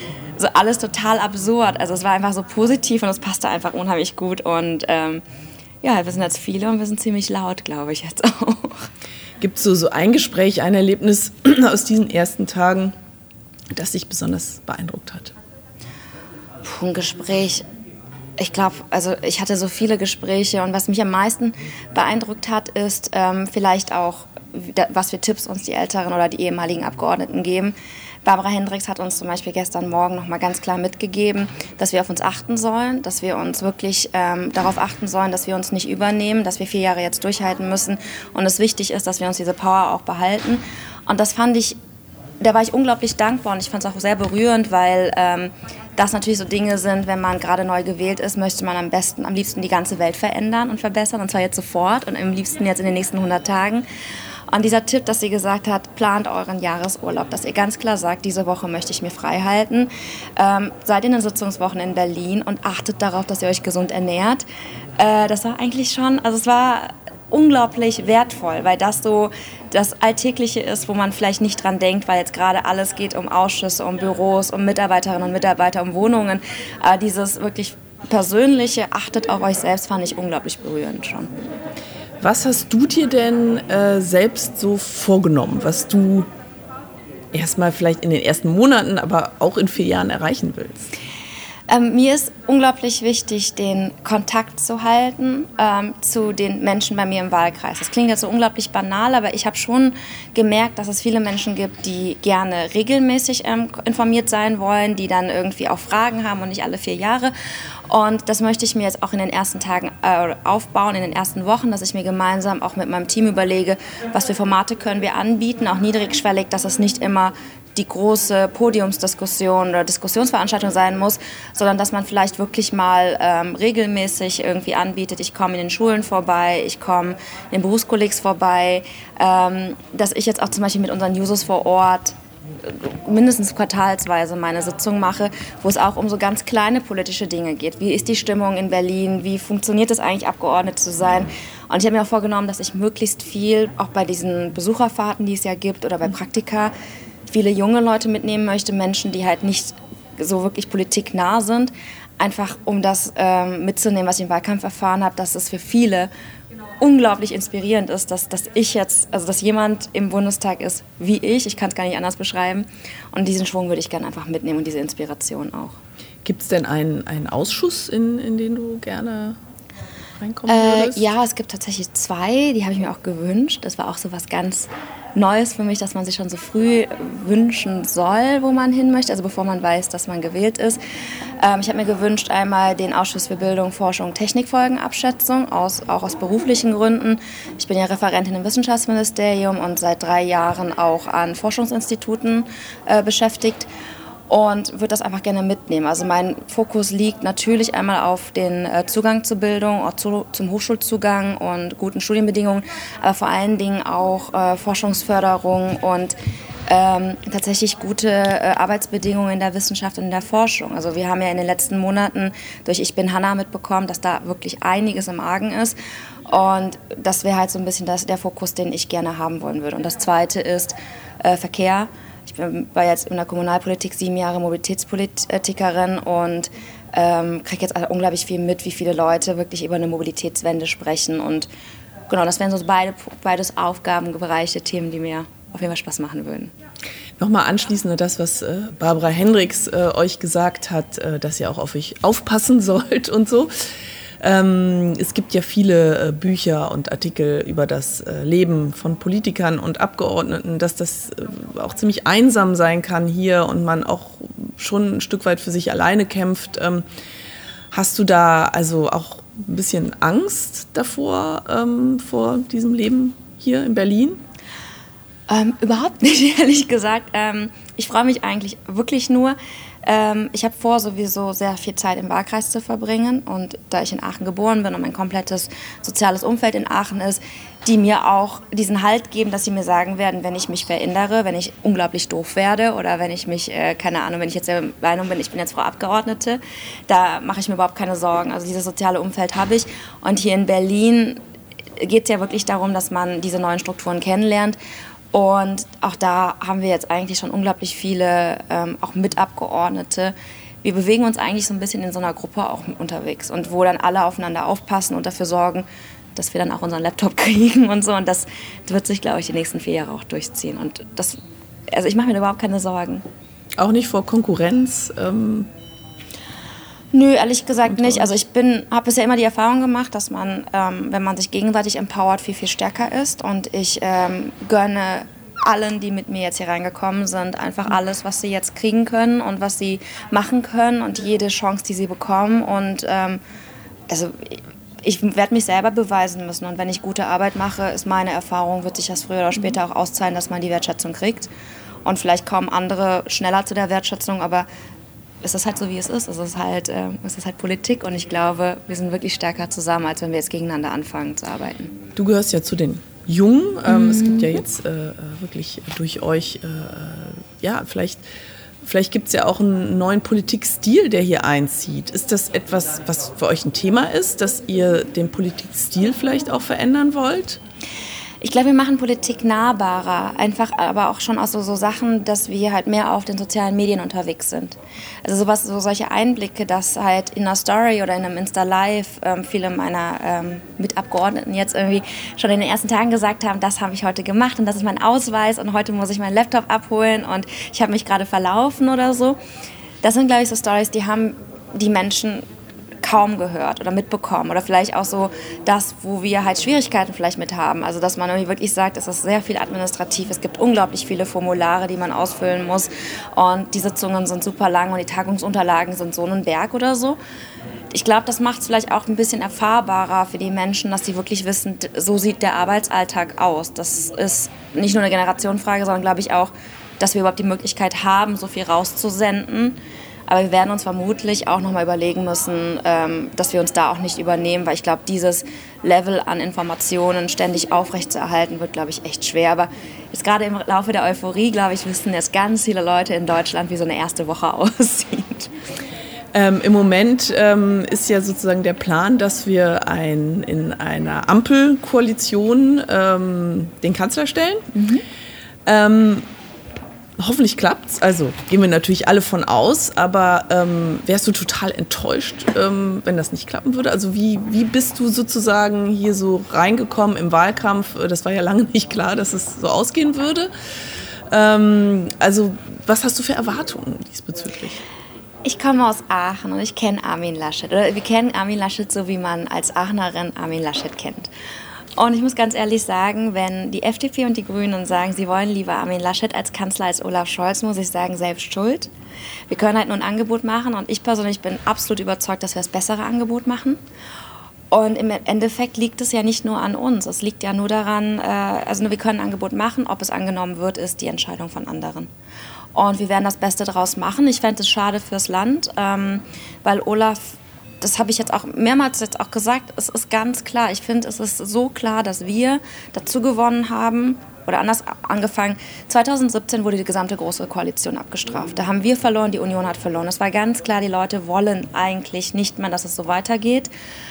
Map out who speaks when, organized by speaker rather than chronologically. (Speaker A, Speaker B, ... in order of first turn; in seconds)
Speaker A: 0.4-5.2, 5.8-8.9, 16.6-17.6, 18.4-41.8, 42.4-53.8, 54.5-64.4, 65.0-81.3, 91.7-107.3, 107.9-146.7, 147.3-156.1, 156.8-165.8, 170.5-180.8, 181.4-193.7, 194.3-206.2, 206.7-215.8, 216.3-231.5, 232.1-236.5, 265.3-291.2, 291.8-294.6, 295.1-311.1, 311.7-313.0, 316.9-333.2, 333.9-341.3, 341.8-344.4, 345.2-351.7, 353.7-354.4, 368.2-389.2, 389.8-392.2, 392.8-407.0, 407.7-435.3, 444.5-444.8, 465.2-471.1, 471.8-478.7, 479.3-483.6, 484.5-491.9, 492.5-513.5
Speaker B: 9.4-12.9, 13.7-15.3, 82.2-86.3, 87.3-90.9, 166.2-169.4, 170.2-171.1, 237.2-243.5, 244.2-256.8, 257.7-264.2, 313.6-315.5, 317.7-318.0, 351.9-358.0, 358.6-367.4, 436.1-444.5, 445.4-446.1, 447.0-460.3, 461.1-464.6